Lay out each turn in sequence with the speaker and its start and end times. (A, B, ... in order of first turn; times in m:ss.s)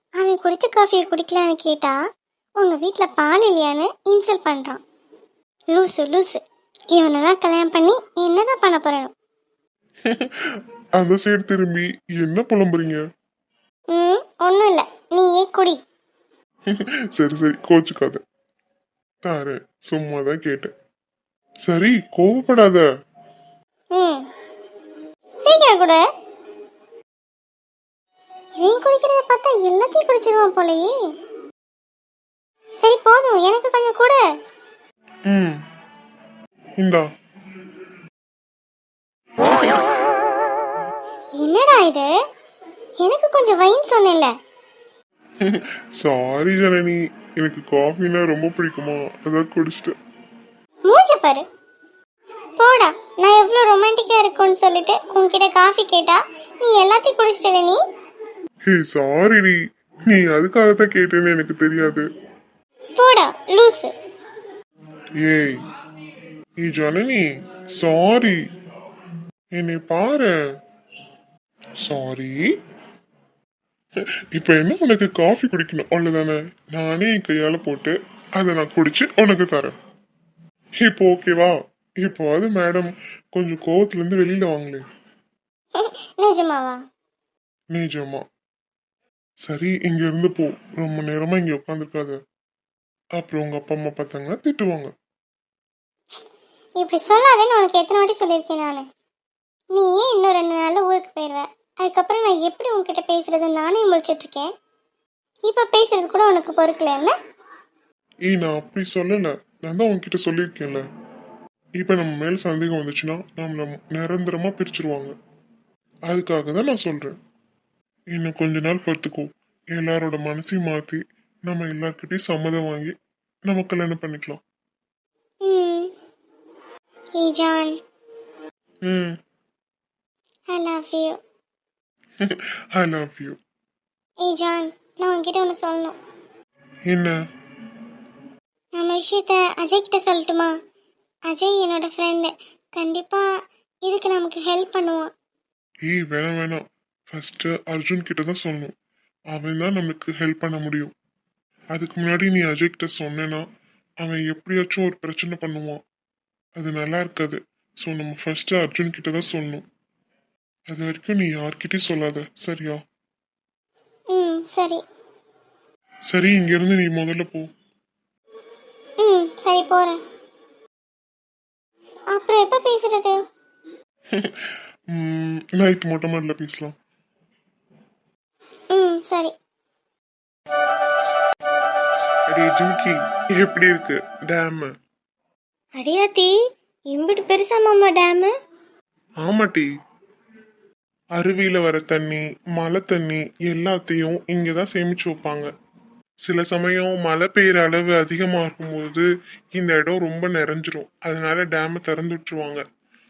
0:00.2-0:02.0 A
0:02.6-0:04.8 A
0:05.7-0:06.4 A
0:06.9-0:09.1 A
0:10.1-0:13.0 B
0:13.9-0:15.8 A
0:16.7-0:18.2 B
0:19.2-0:20.7 B
0:21.7-0:22.8 B
0:24.0-0:24.2 A
0:25.4-0:26.0 A
0:28.6-0:30.9 A
0:32.8-0:34.2 A
0:35.3-0:35.6 B
0:36.8-0:37.1 B
0:39.4-0:39.8 B
0:41.4-0:42.1 A
0:43.0-0:44.3 A
0:45.4-0:50.0 B
0:50.9-0:51.4 A
0:52.6-0:57.8 A
0:58.7-1:02.0 B
1:03.0-1:03.9 A
1:05.2-1:05.6 B
1:06.6-1:08.4 B
1:09.6-1:10.4 B
1:11.8-1:12.5 B
1:14.3-1:19.8 B
1:20.8-1:24.8 B
1:25.8-1:26.8 A
1:27.7-1:28.2 B
1:29.4-1:32.2 B
1:33.2-1:34.9 B
1:36.8-1:38.8 A
1:39.7-1:44.5 A
1:45.5-1:47.1 A
1:48.3-1:50.8 B
1:51.8-1:55.1 B
1:56.1-1:57.2 B
1:58.1-2:02.9 B
2:03.5-2:04.4 B
2:05.5-2:05.9 A
2:07.2-2:07.7 A
2:08.8-2:09.2 B
2:10.5-2:11.2 A
2:12.2-2:13.4 B
2:14.2-2:16.0 A
2:16.9-2:17.2 B
2:18.8-2:20.5 A
2:21.3-2:23.2 A
2:23.9-2:25.1 A
2:25.8-2:28.7 B
2:29.3-2:30.9 B
2:31.7-2:33.4 B
2:34.0-2:35.8 B
2:36.6-2:39.6 B
2:40.7-2:42.8 B
2:44.1-2:44.8 A
2:46.1-2:47.5 B
2:49.0-2:50.0 A
2:52.1-2:53.2 A
2:54.2-2:56.8 B
2:58.7-2:59.3 A
3:02.3-3:04.7 B
3:05.8-3:06.3 C
3:06.9-3:08.3 C
3:09.2-3:09.7 B
3:11.2-3:15.5 B
3:16.2-3:22.6 B